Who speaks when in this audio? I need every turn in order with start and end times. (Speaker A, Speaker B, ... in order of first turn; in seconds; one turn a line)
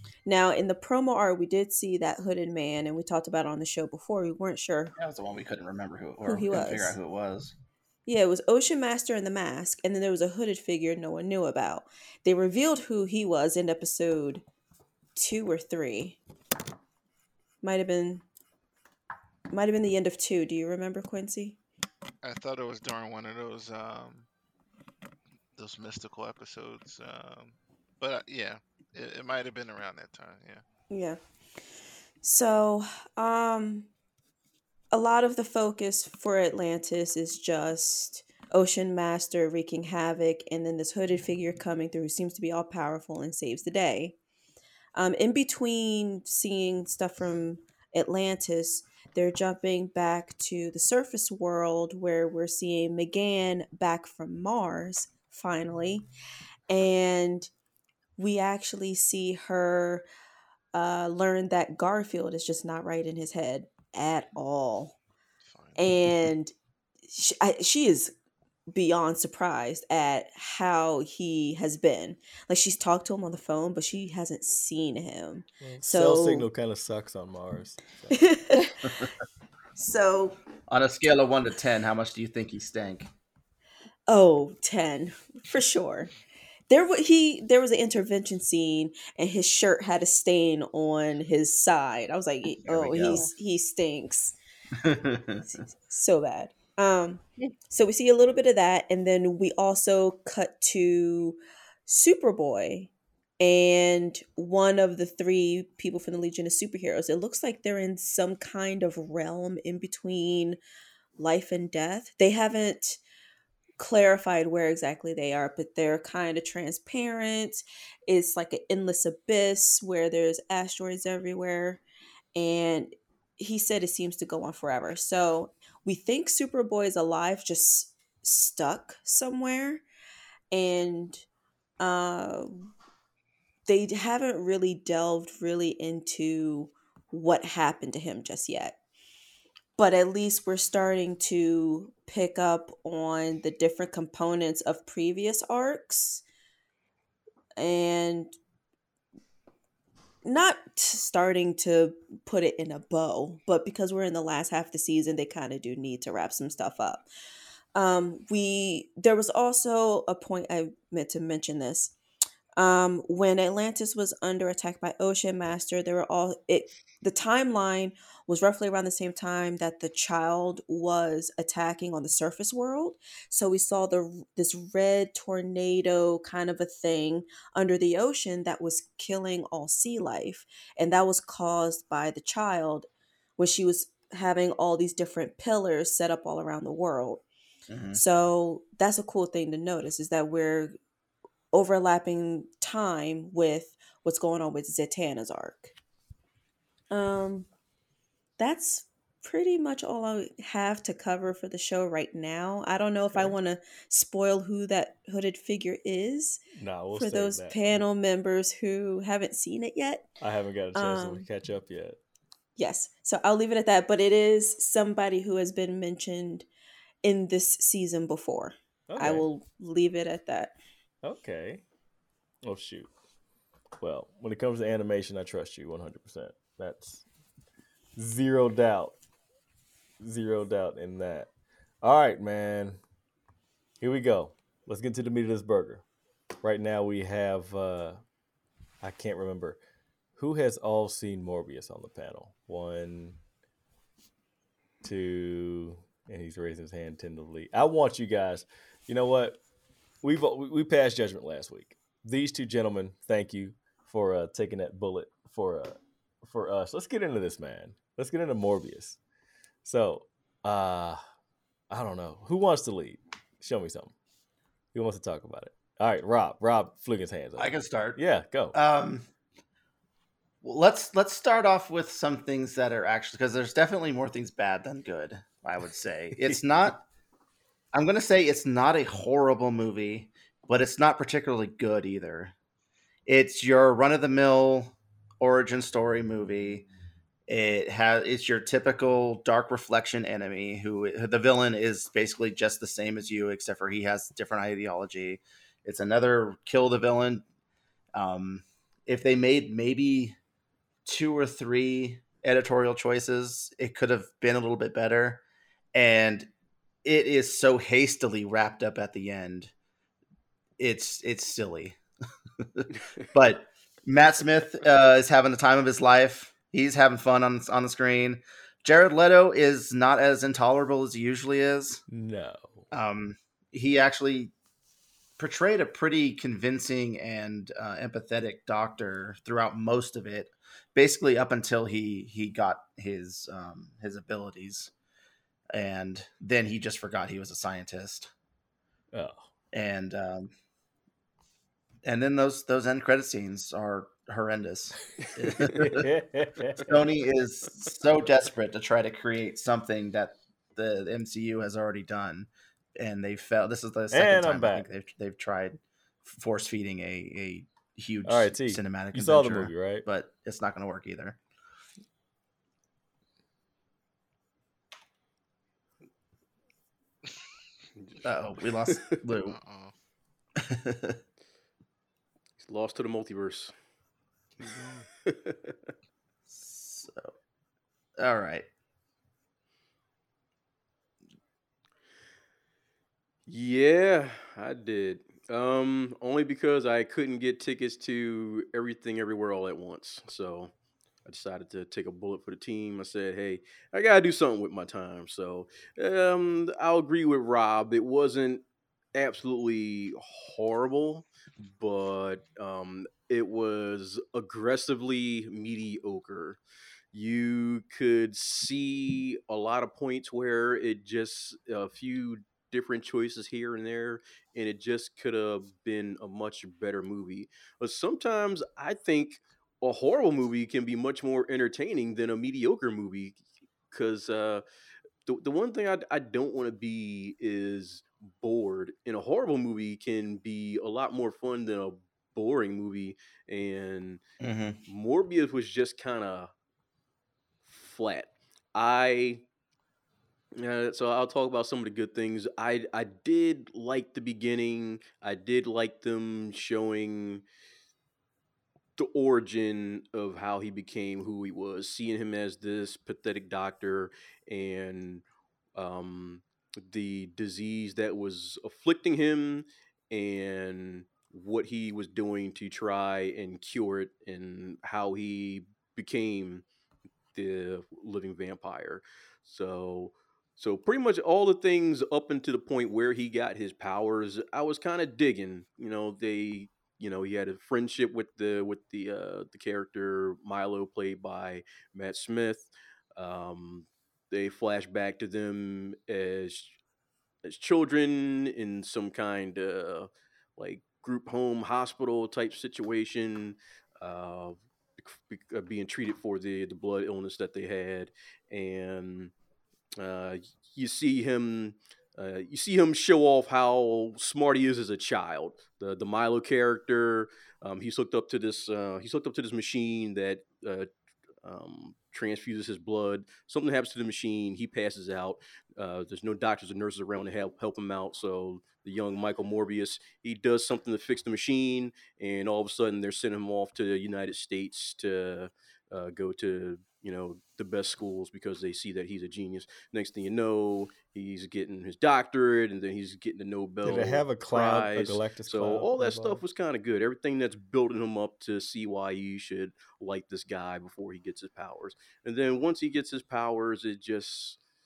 Speaker A: 0.2-4.9
Speaker B: 5.0-7.5
Speaker A: 6.2-7.0
Speaker A: 8.1-14.4
Speaker A: 15.2-16.2
Speaker A: 17.6-18.2
Speaker A: 19.5-21.6
Speaker C: 22.2-24.3
Speaker C: 25.6-30.6
Speaker A: 30.9-31.2
Speaker A: 32.2-33.9
Speaker A: 34.9-44.1
Speaker A: 44.9-56.1
Speaker A: 56.7-57.5
Speaker A: 58.2-60.0
Speaker A: 60.7-64.9
Speaker C: 65.5-65.8
Speaker A: 65.8-66.5
Speaker A: 67.1-68.1
Speaker A: 68.7-76.5
Speaker D: 75.6-78.2
Speaker A: 78.1-78.9
Speaker A: 79.8-80.4
Speaker B: 80.7-83.1
Speaker A: 84.1-86.1
Speaker A: 86.7-94.3
Speaker B: 92.7-93.2
Speaker B: 94.8-95.5
Speaker A: 95.7-110.6
Speaker A: 111.2-113.0
Speaker A: 113.8-121.8
Speaker A: 122.3-129.8
Speaker A: 130.5-131.2
Speaker A: 131.8-132.7
Speaker A: 133.7-138.8
Speaker A: 139.8-146.2
Speaker A: 147.6-148.3
Speaker A: 150.2-157.0
Speaker A: 157.7-161.9
Speaker A: 162.6-182.9
Speaker A: 183.4-187.2
Speaker B: 187.7-188.0
Speaker A: 187.9-190.8
Speaker A: 191.5-195.7
Speaker A: 196.9-197.5
Speaker A: 198.4-210.2
Speaker D: 206.5-207.8
Speaker D: 210.2-212.0
Speaker A: 210.7-211.3
Speaker A: 212.6-216.5
Speaker A: 217.0-220.6
Speaker D: 218.9-219.2
Speaker D: 221.0-221.6
Speaker D: 222.4-222.9
Speaker D: 223.8-227.0
Speaker D: 227.9-228.9
Speaker D: 230.0-231.3
Speaker D: 231.8-232.8
Speaker D: 233.8-235.8
Speaker D: 236.4-238.0
Speaker D: 238.8-239.6
Speaker D: 240.2-243.2
Speaker D: 244.8-249.4
Speaker D: 250.0-259.0
Speaker D: 259.6-261.0
Speaker D: 261.7-263.9
Speaker D: 264.7-268.5
Speaker B: 267.4-268.0
Speaker B: 268.5-269.0
Speaker B: 270.4-276.8
Speaker B: 277.7-282.3
Speaker B: 283.1-286.7
Speaker B: 287.3-297.2
Speaker B: 297.9-300.2
Speaker B: 300.9-305.2
Speaker B: 305.7-306.3
Speaker B: 306.8-309.5
Speaker B: 310.6-311.8
Speaker B: 312.4-321.8
Speaker D: 321.9-322.6
Speaker B: 322.7-324.3
Speaker B: 325.2-334.7
Speaker B: 335.5-338.1
Speaker D: 338.9-339.2
Speaker B: 339.5-340.3
Speaker B: 341.8-345.9
Speaker D: 345.0-346.9
Speaker B: 346.6-361.2
Speaker D: 353.9-354.7
Speaker D: 358.0-359.9
Speaker B: 368.0-369.4
Speaker E: 368.7-368.9
Speaker C: 369.3-369.7
Speaker B: 370.4-371.0
Speaker E: 372.4-373.5
Speaker E: 375.0-375.6
Speaker B: 376.3-377.1
Speaker B: 378.0-378.4
Speaker E: 383.3-390.5
Speaker E: 391.0-398.4
Speaker E: 398.9-406.4
Speaker E: 406.9-424.4
Speaker E: 425.1-434.0
Speaker B: 434.2-434.6
Speaker E: 434.7-436.3
Speaker E: 437.4-439.2
Speaker E: 440.3-447.2
Speaker E: 448.8-455.0
Speaker E: 455.6-466.4
Speaker E: 467.1-486.6
Speaker E: 487.2-499.1
Speaker E: 499.8-510.7
Speaker E: 511.2-544.4
Speaker D: 533.6-536.2